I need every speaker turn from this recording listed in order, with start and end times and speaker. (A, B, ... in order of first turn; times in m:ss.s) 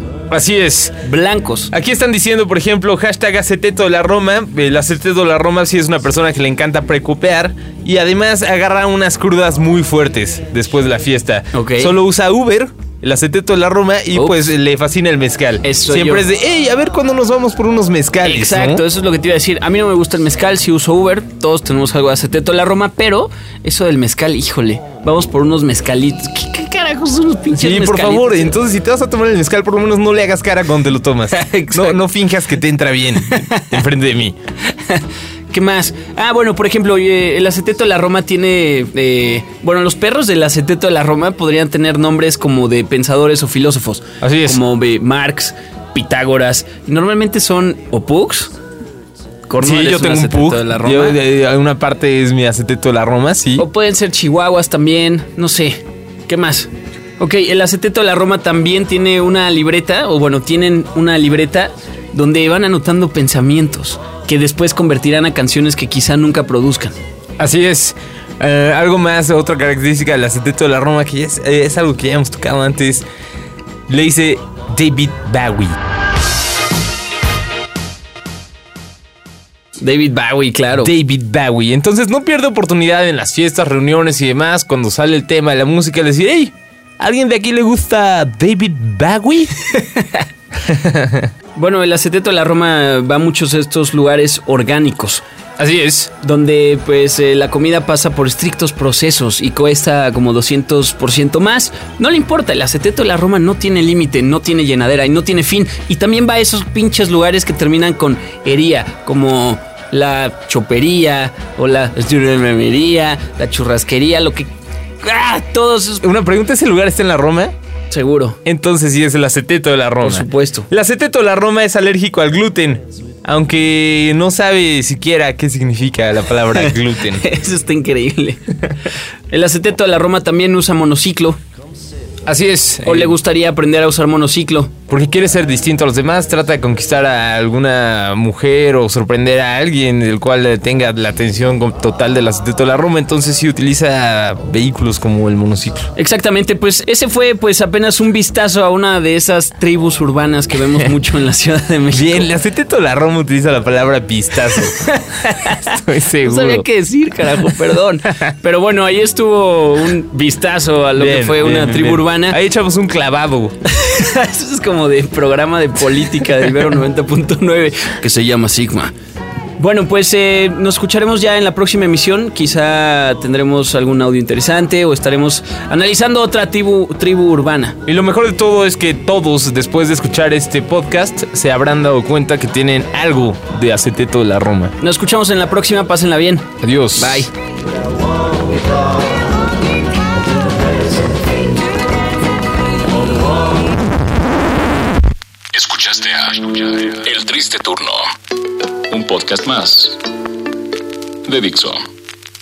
0:00.3-0:01.0 A
0:01.0-0:01.7 B
0:01.7-0:18.8 A
0:11.5-0:11.9 B
0:14.2-0:14.5 B
0:15.6-0:16.3 B
0:18.2-0:28.5 B
0:27.5-0:34.4 A
0:31.3-0:32.0 B
0:33.2-0:33.8 B
0:34.7-0:48.5 B
0:44.2-0:44.6 A
0:49.5-0:51.2 B
0:49.6-0:53.7 A
0:53.6-1:07.0 B
1:07.4-1:13.1 A
1:13.9-1:15.8 A
1:19.8-1:20.9 B
1:20.8-1:29.6 A
1:29.8-1:30.2 B
1:30.6-1:31.3 A
1:31.6-1:35.2 B
1:35.6-1:36.1 A
1:36.1-1:54.5 B
1:55.0-1:56.1 B
1:56.0-1:57.5 A
1:57.9-1:58.4 B
1:58.4-2:07.2 A
2:00.0-2:00.7 B
2:06.5-2:08.7 B
2:09.3-2:11.4 B
2:12.2-2:13.2 A
2:12.8-2:14.7 B
2:14.9-2:25.9 A
2:26.0-2:32.3 B
2:31.9-2:34.8 A
2:34.5-2:42.4 B
2:35.6-2:36.6 A
2:41.0-2:43.6 A
2:43.6-2:48.9 B
2:49.6-2:57.8 B
2:57.9-3:04.7 A
3:04.8-3:07.3 B
3:06.6-3:07.3 A
3:15.5-3:18.1 C
3:18.9-3:20.0 C
3:21.2-3:21.9 C